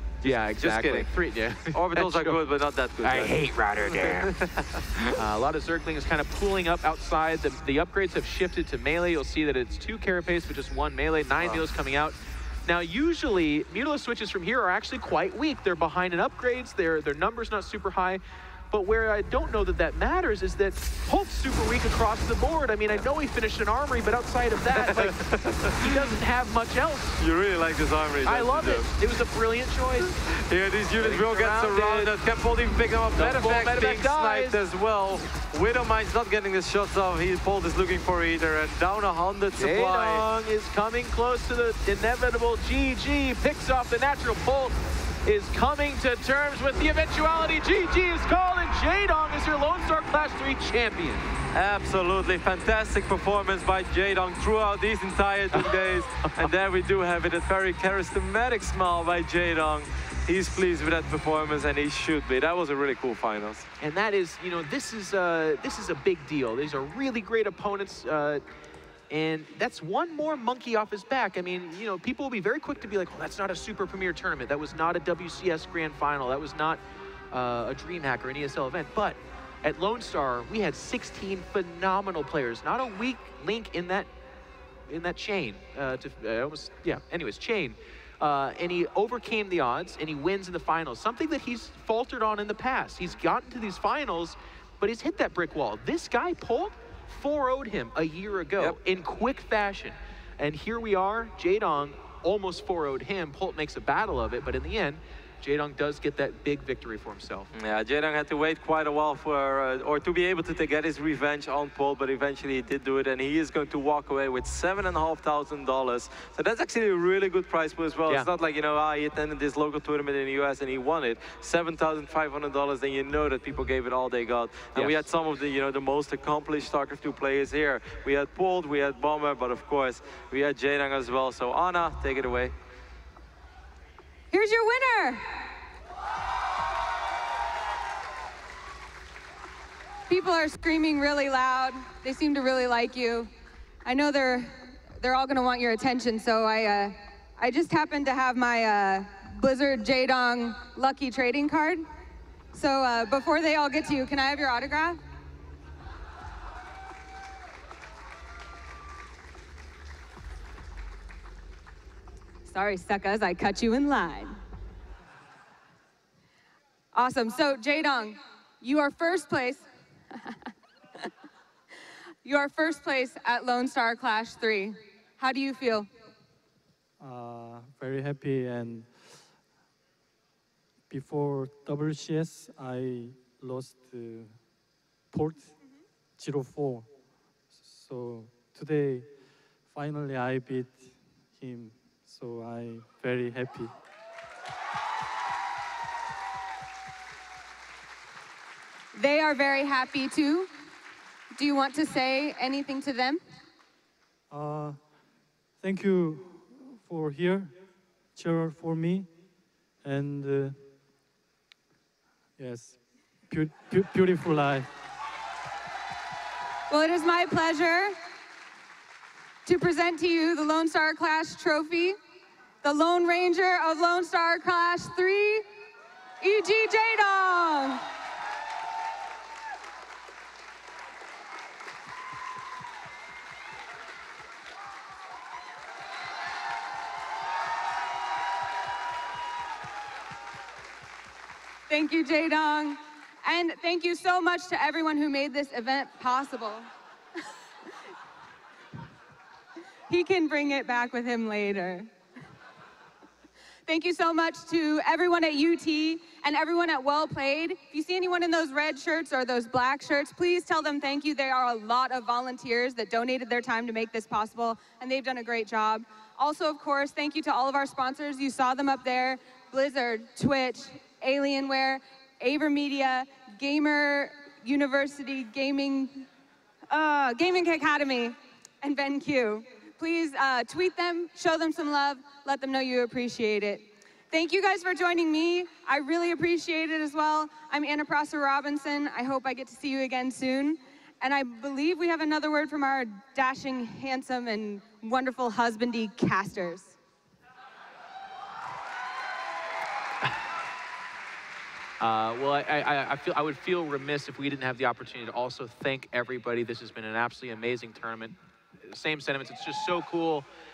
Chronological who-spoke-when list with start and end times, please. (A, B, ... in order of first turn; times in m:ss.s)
0:00.2-0:01.1 A
0:00.2-0:02.4 B
0:01.7-0:03.4 A
0:03.0-0:04.3 B
0:03.9-0:05.2 A
0:05.1-0:27.2 B
0:24.7-0:26.1 A
0:27.2-0:28.9 A
0:28.2-0:30.1 B
0:30.1-0:40.3 A
0:30.9-0:32.1 B
0:33.2-0:34.6 B
0:39.5-0:51.3 B
0:51.5-1:03.7 A
0:55.5-0:56.5 B
1:03.8-1:08.4 B
1:09.1-1:16.8 B
1:17.3-1:24.1 B
1:24.9-1:47.5 B
1:47.5-2:12.5 A
2:04.7-2:05.0 B
2:14.3-2:15.2 C
2:20.1-2:23.3 C
2:23.8-2:31.8 C
2:32.5-2:35.0 C
2:42.4-2:44.4 C
2:46.9-2:51.1 C
2:52.2-2:55.9 C
2:57.0-2:59.3 D
3:00.9-3:04.4 D
3:05.1-3:05.5 D
3:06.2-3:06.9 D
3:07.5-3:13.7 D
3:18.9-3:20.5 C
3:21.3-3:23.2 C
3:24.3-3:24.9 D
3:25.6-3:29.1 D
3:29.8-3:30.6 D
3:32.4-3:34.7 D
3:36.7-3:37.9 C
3:39.4-3:42.0 C
3:42.6-3:45.4 C
3:46.2-3:47.8 C
4:01.7-4:06.7 C
4:09.9-4:11.9 C
4:13.6-4:36.0 C
4:36.7-4:56.8 C
5:01.8-5:10.2 B